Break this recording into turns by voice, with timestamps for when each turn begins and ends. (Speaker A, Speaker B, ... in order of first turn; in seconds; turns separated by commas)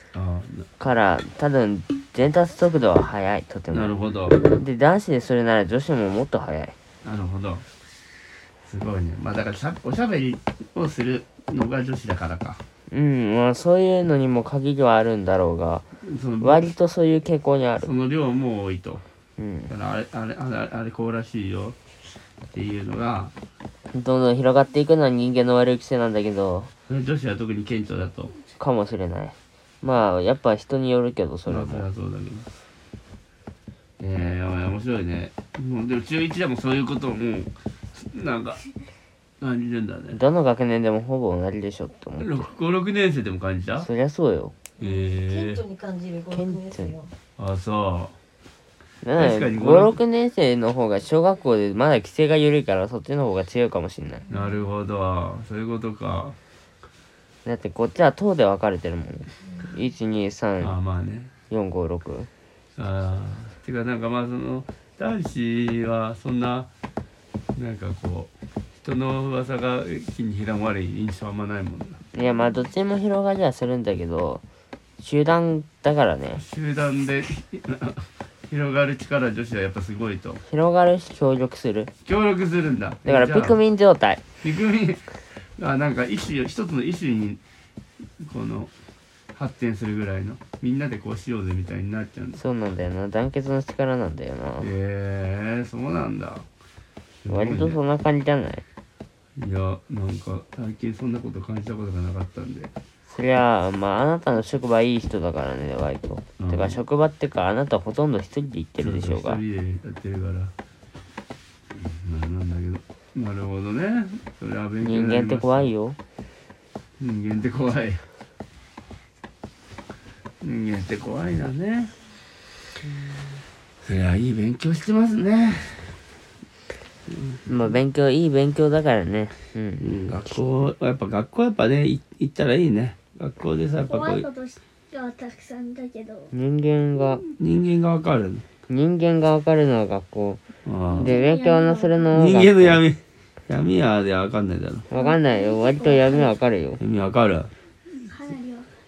Speaker A: 0.1-0.7, Speaker B: 0.8-6.8, Speaker A: 3.7-4.4, Speaker A: 7.0-7.7, Speaker A: 8.7-12.6, Speaker B: 12.9-15.8, Speaker A: 16.0-16.7, Speaker B: 16.4-17.9, Speaker A: 17.8-19.0, Speaker B: 19.4-19.7, Speaker A: 19.7-21.8, Speaker A: 22.5-23.3, Speaker B: 23.9-26.7, Speaker A: 26.9-28.4, Speaker B: 28.6-31.9, Speaker A: 31.5-32.5, Speaker A: 34.0-38.6, Speaker A: 39.4-40.2, Speaker B: 40.1-42.5, Speaker A: 42.2-43.9, Speaker B: 43.8-44.5, Speaker C: 44.8-47.1, Speaker A: 44.8-45.6, Speaker B: 46.3-47.0, Speaker A: 47.4-48.2, Speaker B: 49.0-54.2, Speaker A: 49.1-50.0, Speaker C: 54.3-54.6, Speaker A: 54.3-56.4, Speaker B: 57.5-60.7, Speaker C: 59.4-59.7, Speaker A: 60.6-61.3, Speaker B: 61.5-62.3, Speaker A: 62.8-66.7, Speaker A: 67.5-68.3, Speaker A: 68.8-72.0, Speaker B: 72.1-74.4, Speaker B: 75.0-76.4, Speaker A: 76.3-80.4, Speaker B: 80.5-81.9, Speaker A: 82.0-83.6, Speaker B: 83.0-84.2, Speaker A: 84.4-87.4, Speaker A: 88.2-88.7, Speaker A: 89.3-92.4, Speaker B: 92.4-94.7, Speaker A: 94.6-96.5, Speaker A: 97.2-97.8, Speaker B: 97.3-98.6, Speaker A: 99.4-102.7, Speaker B: 103.1-109.4, Speaker A: 106.4-106.8, Speaker A: 108.8-110.5, Speaker A: 111.7-115.7, Speaker B: 114.8-116.0, Speaker A: 117.0-118.0, Speaker A: 120.4-121.9, Speaker A: 123.8-126.0, Speaker A: 127.1-127.4, Speaker B: 127.5-130.0, Speaker A: 129.8-134.3, Speaker D: 133.8-136.3, Speaker B: 136.3-137.2, Speaker A: 137.4-138.4, Speaker B: 138.7-140.4, Speaker A: 140.7-141.2, Speaker D: 140.9-142.2, Speaker B: 141.0-142.8, Speaker A: 142.1-144.9, Speaker B: 144.9-146.8, Speaker D: 144.9-146.4, Speaker A: 146.8-147.5, Speaker D: 147.9-148.7